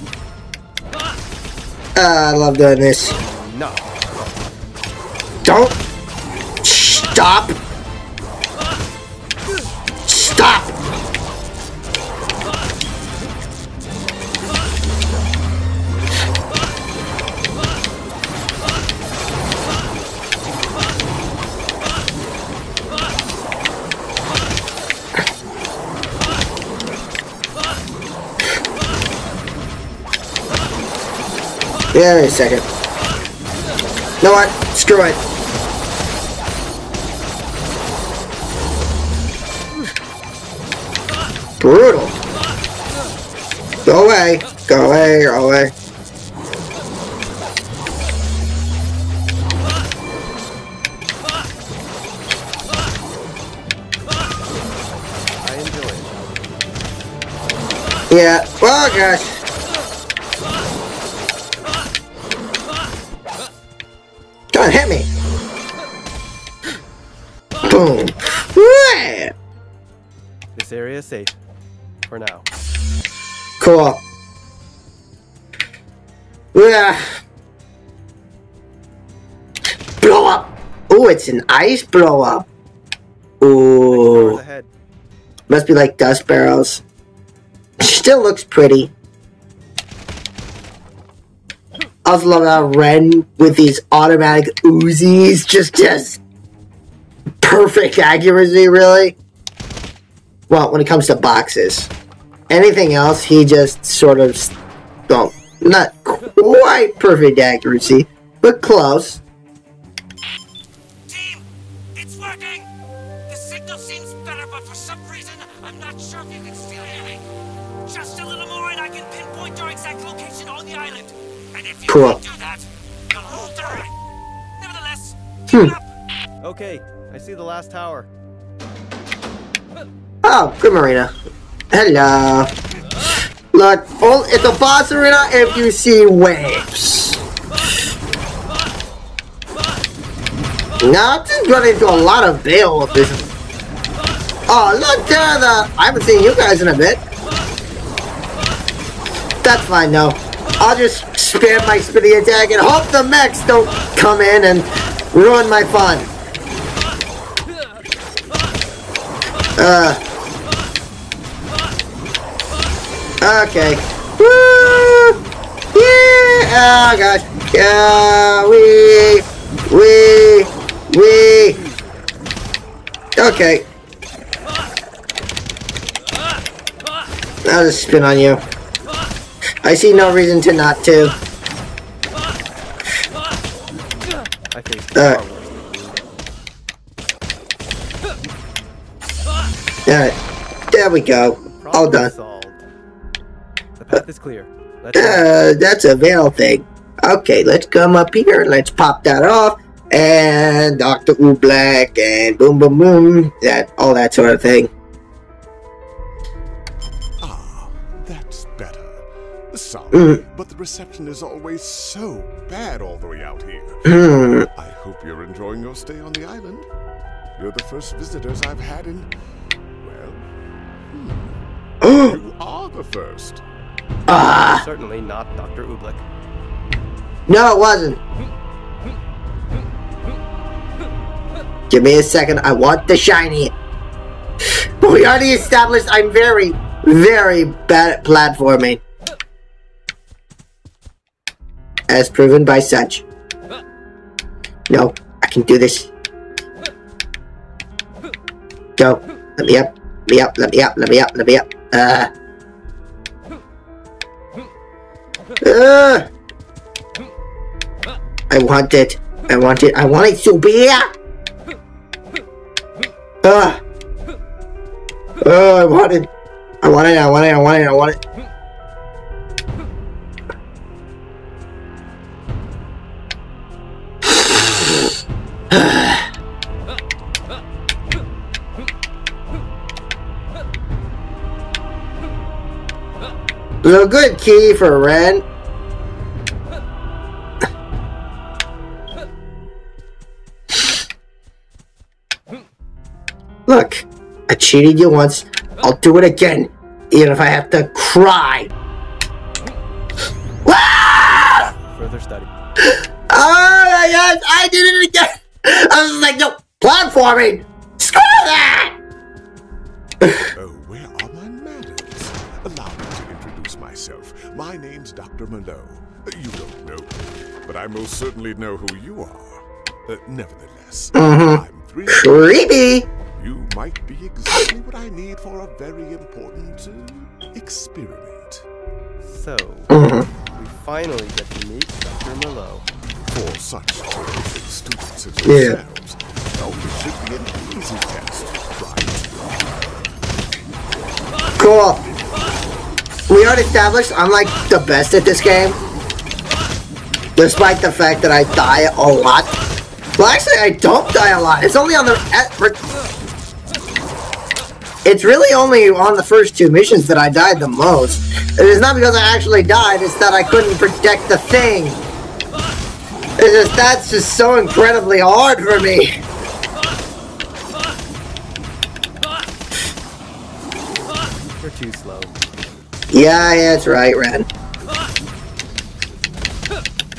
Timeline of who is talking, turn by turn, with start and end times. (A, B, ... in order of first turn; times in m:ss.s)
0:02.0-0:03.2 A
0:03.2-0:04.6 B
0:05.4-0:05.8 A
0:06.6-0:07.6 A
0:10.1-0:10.8 A
0:31.9-0:32.6 A
0:34.2-0:35.2 A
0:41.6-0:42.1 A
0:43.9-0:45.7 A
0:55.4-0:56.5 B
0:58.1-0:59.4 A
1:04.5-1:05.1 A
1:07.6-1:09.3 A
1:10.6-1:11.3 B
1:12.1-1:12.5 B
1:13.6-1:14.0 A
1:16.5-1:17.0 A
1:20.0-1:22.5 A
1:23.4-1:24.4 A
1:23.9-1:24.7 B
1:25.5-1:26.8 A
1:27.8-1:28.9 A
1:32.0-1:36.2 A
1:37.4-1:39.2 A
1:40.5-1:41.9 A
1:42.5-1:44.5 A
1:45.1-1:49.2 A
1:51.1-1:52.7 C
1:53.3-1:57.3 C
1:57.8-2:03.9 C
2:01.9-2:02.2 A
2:04.6-2:05.9 C
2:05.5-2:05.8 A
2:06.4-2:08.1 B
2:10.2-2:11.1 A
2:11.7-2:12.5 A
2:13.5-2:17.2 A
2:20.8-2:23.3 A
2:24.5-2:27.0 A
2:29.4-2:36.1 A
2:39.6-2:40.0 A
2:43.2-2:45.2 A
2:45.7-2:51.6 A
2:51.3-2:52.1 B
2:53.2-2:53.7 A
2:57.4-2:58.4 A
2:59.6-3:01.1 A
3:04.5-3:06.0 B
3:05.0-3:05.2 A
3:09.9-3:10.2 A
3:10.7-3:12.1 A
3:11.2-3:12.6 B
3:13.8-3:15.3 B
3:15.0-3:24.7 A
3:27.2-3:36.7 D
3:29.9-3:30.2 A
3:33.8-3:34.5 A
3:37.4-3:39.1 D
3:39.8-3:40.3 D
3:40.9-3:43.4 D
3:41.8-3:42.2 A
3:44.1-3:44.6 A
3:44.5-3:46.0 B
3:47.3-3:48.0 A
3:51.7-3:53.5 A
3:54.8-3:58.8 A
4:01.9-4:03.0 A
4:04.7-4:05.9 A
4:08.8-4:12.1 A
4:15.4-4:16.1 A
4:18.3-4:20.9 A
4:23.2-4:23.6 A
4:25.2-4:26.1 A
4:26.6-4:28.0 A
4:35.5-4:36.0 A
4:43.6-4:45.2 A
4:53.5-4:58.5 A
5:00.4-5:01.5 A
5:01.0-5:02.3 B
5:03.1-5:08.8 A
5:10.2-5:22.5 D
5:21.0-5:22.9 A
5:23.1-5:28.5 D
5:29.0-5:29.7 B
5:29.7-5:30.1 A
5:30.3-5:32.7 B
5:33.0-5:39.6 D
5:35.2-5:35.6 A
5:41.4-5:41.8 A
5:43.1-5:45.6 A
5:47.2-5:49.3 A
5:50.0-5:52.6 A
5:54.8-6:01.8 A
6:03.2-6:06.0 A
6:11.4-6:12.1 B
6:12.9-6:14.3 A